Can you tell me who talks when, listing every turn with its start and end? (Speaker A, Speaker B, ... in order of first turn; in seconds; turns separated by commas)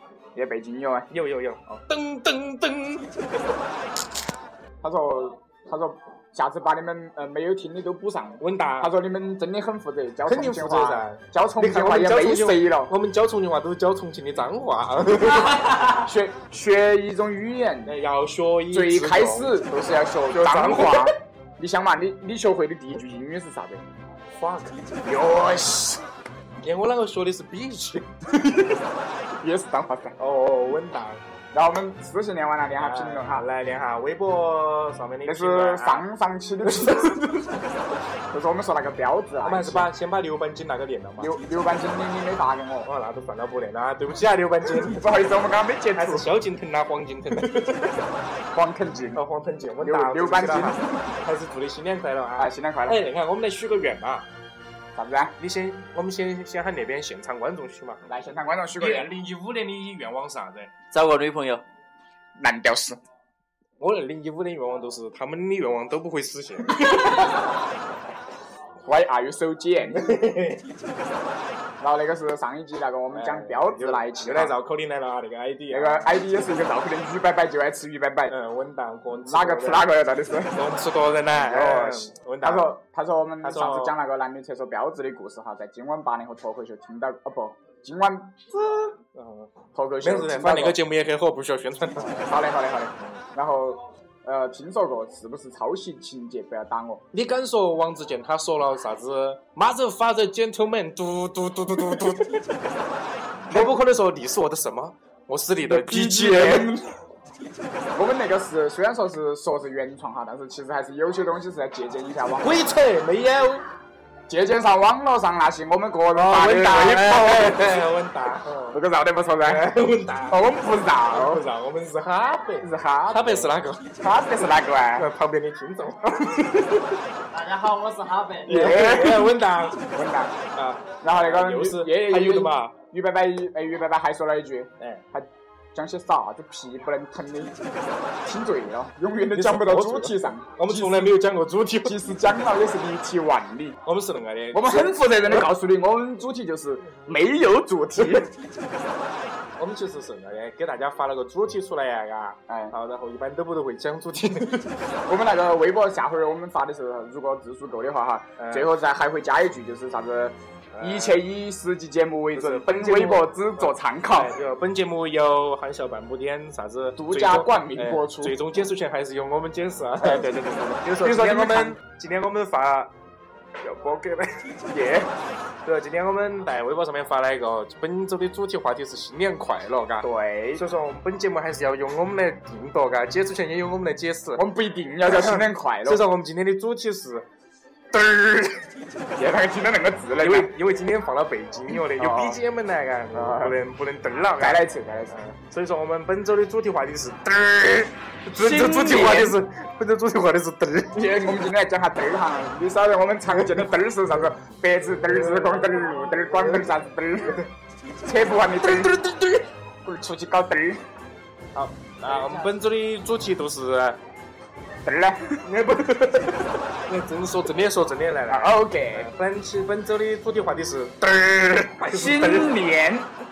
Speaker A: 0.3-1.1, Speaker B: 1.1-3.4, Speaker A: 4.8-12.9, Speaker B: 8.4-8.9, Speaker B: 10.2-15.8, Speaker A: 15.6-17.9, Speaker B: 17.9-19.6, Speaker A: 18.7-23.8, Speaker B: 20.3-21.1, Speaker B: 24.3-24.8, Speaker A: 25.0-26.0, Speaker B: 26.6-28.1, Speaker A: 29.4-30.1, Speaker B: 30.2-31.2, Speaker A: 31.5-33.4, Speaker B: 32.8-36.1, Speaker A: 35.2-37.3, Speaker B: 36.6-37.6, Speaker A: 38.3-39.9, Speaker B: 39.4-41.3, Speaker A: 41.2-42.9, Speaker B: 42.9-45.0, Speaker A: 44.7-46.3, Speaker B: 45.9-47.9, Speaker A: 48.5-49.2, Speaker B: 49.1-54.3, Speaker A: 49.8-51.1, Speaker A: 52.4-53.0, Speaker A: 54.9-55.3, Speaker B: 55.4-58.0, Speaker A: 58.1-59.1, Speaker B: 58.8-60.7, Speaker C: 60.9-61.6, Speaker A: 62.4-63.0, Speaker B: 63.8-67.3, Speaker A: 68.8-70.1, Speaker B: 69.8-70.6, Speaker A: 71.8-74.5, Speaker B: 73.1-76.1, Speaker A: 75.7-78.3, Speaker B: 78.3-79.9, Speaker A: 79.3-80.5, Speaker B: 80.5-82.8, Speaker A: 81.3-88.9, Speaker B: 83.4-83.9, Speaker B: 89.1-92.1, Speaker A: 89.7-90.8, Speaker A: 92.0-97.0, Speaker B: 97.1-102.6, Speaker B: 103.5-106.8, Speaker A: 105.6-106.9, Speaker A: 107.9-112.7, Speaker B: 112.4-113.7, Speaker A: 114.3-117.8, Speaker B: 116.1-118.8, Speaker A: 118.7-119.7, Speaker B: 119.4-120.5, Speaker A: 120.3-121.4, Speaker B: 121.1-123.8, Speaker A: 122.6-125.1, Speaker B: 125.0-127.0, Speaker C: 127.3-128.6, Speaker B: 128.4-129.9, Speaker A: 128.4-130.3, Speaker B: 130.5-132.7, Speaker A: 131.0-137.5, Speaker A: 138.2-141.2, Speaker B: 139.3-141.9, Speaker A: 141.8-143.8, Speaker B: 143.8-145.5, Speaker A: 144.5-148.3, Speaker B: 149.6-154.7, Speaker A: 155.1-164.3, Speaker B: 158.4-158.7, Speaker B: 160.7-161.2, Speaker B: 162.3-170.3, Speaker A: 167.0-168.3, Speaker A: 170.0-171.8, Speaker B: 170.8-172.9, Speaker B: 173.6-174.5, Speaker A: 174.7-175.1, Speaker B: 175.6-184.4, Speaker A: 180.0-180.6, Speaker A: 184.3-186.1, Speaker B: 185.1-187.2, Speaker B: 187.9-188.6, Speaker A: 189.2-190.5, Speaker B: 190.2-201.0, Speaker A: 191.7-192.4, Speaker A: 193.1-193.5, Speaker A: 194.4-195.2, Speaker A: 198.4-199.4, Speaker A: 200.9-207.5, Speaker B: 203.4-203.7, Speaker B: 204.8-206.8, Speaker A: 208.0-208.9, Speaker B: 208.6-209.5, Speaker A: 209.8-210.8, Speaker B: 211.5-214.0, Speaker A: 214.8-215.4, Speaker B: 215.4-222.6, Speaker A: 218.3-219.1, Speaker A: 221.8-223.1